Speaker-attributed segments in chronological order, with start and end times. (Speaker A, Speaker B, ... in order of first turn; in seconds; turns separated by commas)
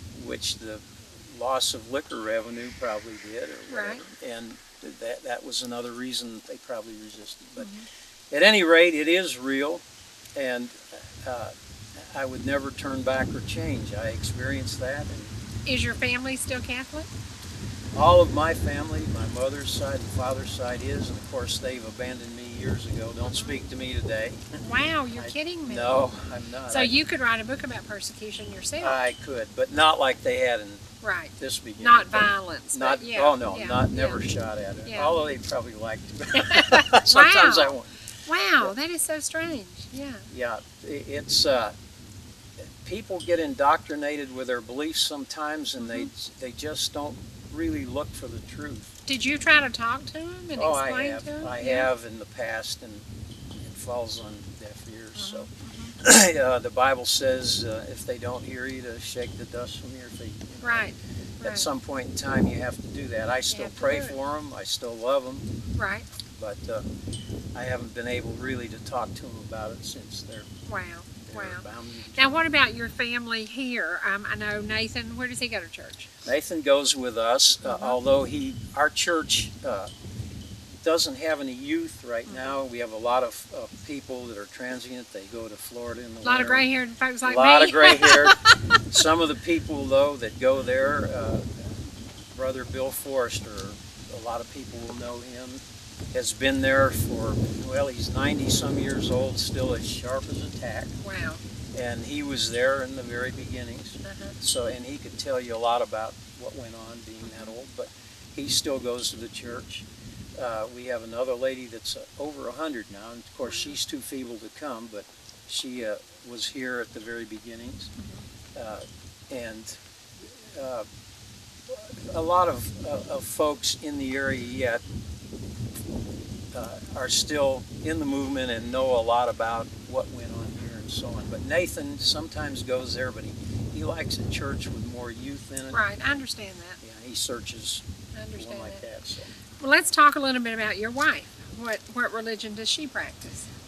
Speaker A: 0.1-7.7, Speaker B: 3.7-4.0, Speaker B: 7.6-7.9, Speaker A: 8.3-9.8, Speaker A: 10.3-15.3, Speaker B: 15.7-17.1, Speaker A: 17.9-24.6, Speaker B: 24.6-26.1, Speaker A: 25.2-26.9, Speaker B: 26.7-29.0, Speaker A: 28.8-30.9, Speaker B: 31.0-34.2, Speaker A: 31.4-37.9, Speaker B: 34.9-35.1, Speaker B: 36.4-40.3, Speaker A: 40.3-41.8, Speaker A: 42.8-48.9, Speaker B: 45.8-46.1, Speaker B: 49.1-51.9, Speaker A: 50.6-53.1, Speaker A: 53.6-60.9, Speaker B: 55.2-55.9, Speaker B: 60.6-61.7, Speaker A: 61.4-65.5, Speaker B: 63.5-64.2, Speaker B: 65.8-66.1, Speaker A: 66.4-66.9, Speaker A: 67.5-70.5, Speaker B: 70.7-71.6, Speaker A: 71.3-72.4, Speaker B: 72.2-76.1, Speaker A: 76.2-79.9, Speaker B: 77.7-78.0, Speaker A: 80.8-86.7, Speaker B: 82.3-82.6, Speaker B: 86.2-88.7, Speaker A: 87.2-100.9, Speaker B: 101.0-101.4, Speaker A: 101.7-117.9, Speaker B: 104.0-104.4, Speaker B: 107.2-107.5, Speaker B: 113.5-113.8, Speaker B: 118.0-118.2, Speaker A: 118.5-120.9, Speaker A: 121.7-124.8, Speaker A: 126.5-136.2, Speaker B: 135.7-136.8, Speaker A: 136.8-139.3, Speaker B: 138.1-138.8, Speaker B: 139.6-143.5